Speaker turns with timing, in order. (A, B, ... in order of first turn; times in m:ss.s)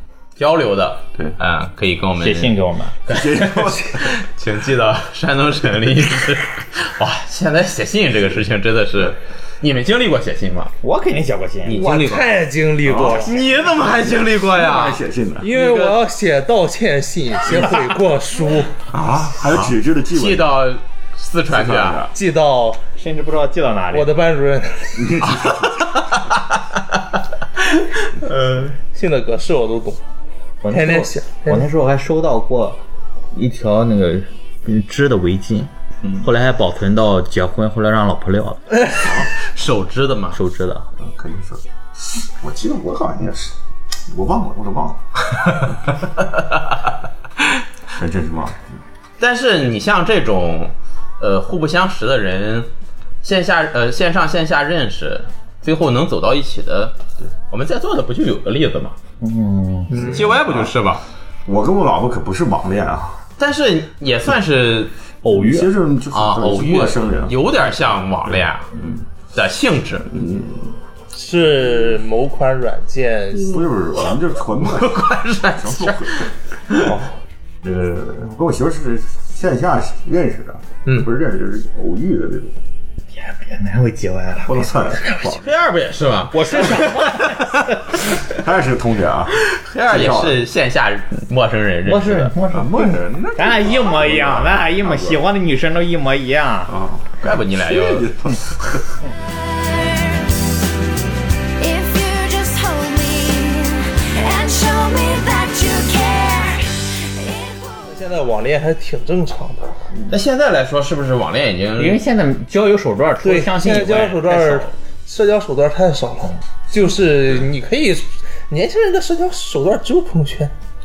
0:00.4-0:10.7 A
0:02.2-0:03.0 B
0:03.1-0:04.2 C
0:10.8-0:11.9 B
0:11.6-0:12.3 A
0:11.7-0:13.3 D
0:12.9-0:13.4 C
0:12.9-0:16.0 A
0:14.4-0:15.5 C
0:15.4-0:18.7 D
0:18.9-0:20.6 C
0:19.5-0:22.1 A
0:21.5-0:22.1 C
0:22.1-0:22.8 D
0:23.0-0:24.1 B
0:23.9-0:25.2 D
0:25.0-0:26.0 C
0:27.8-0:28.7 A
0:28.8-0:30.0 D
0:30.6-0:32.8 B
0:30.7-0:31.6 D
0:33.3-0:38.8 B
0:36.0-0:36.3 C
0:38.8-0:39.0 D
0:39.0-0:39.4 C
0:39.3-0:40.4 A
0:40.3-0:40.9 B
0:41.0-0:43.5 C
0:44.1-0:46.0 C
0:47.9-0:48.8 C
0:49.2-0:52.7 A
0:53.2-0:56.9 A
0:57.5-0:59.0 A
0:59.2-1:00.2 B
0:59.9-1:00.2 D
0:59.9-1:00.8 C
1:00.0-1:01.0 A
1:01.4-1:03.2 C
1:03.4-1:04.9 A
1:05.2-1:05.7 B
1:05.2-1:07.4 C
1:06.1-1:08.7 A
1:08.7-1:09.0 C
1:09.3-1:10.1 A
1:10.1-1:10.7 C
1:11.1-1:13.7 D
1:13.4-1:16.3 C
1:14.6-1:16.9 A
1:16.8-1:17.1 D
1:17.6-1:22.6 C
1:20.8-1:21.1 D
1:23.1-1:25.0 B
1:24.4-1:25.5 C
1:25.2-1:27.4 A
1:26.3-1:28.0 B
1:27.9-1:30.4 C
1:29.4-1:32.3 A
1:31.8-1:36.8 B
1:32.5-1:35.2 C
1:36.7-1:39.0 C
1:37.2-1:38.4 A
1:39.2-1:40.5 E
1:41.6-1:48.0 E
1:47.8-1:49.7 D
1:50.0-1:52.0 A
1:51.8-1:54.7 B
1:53.2-2:00.5 D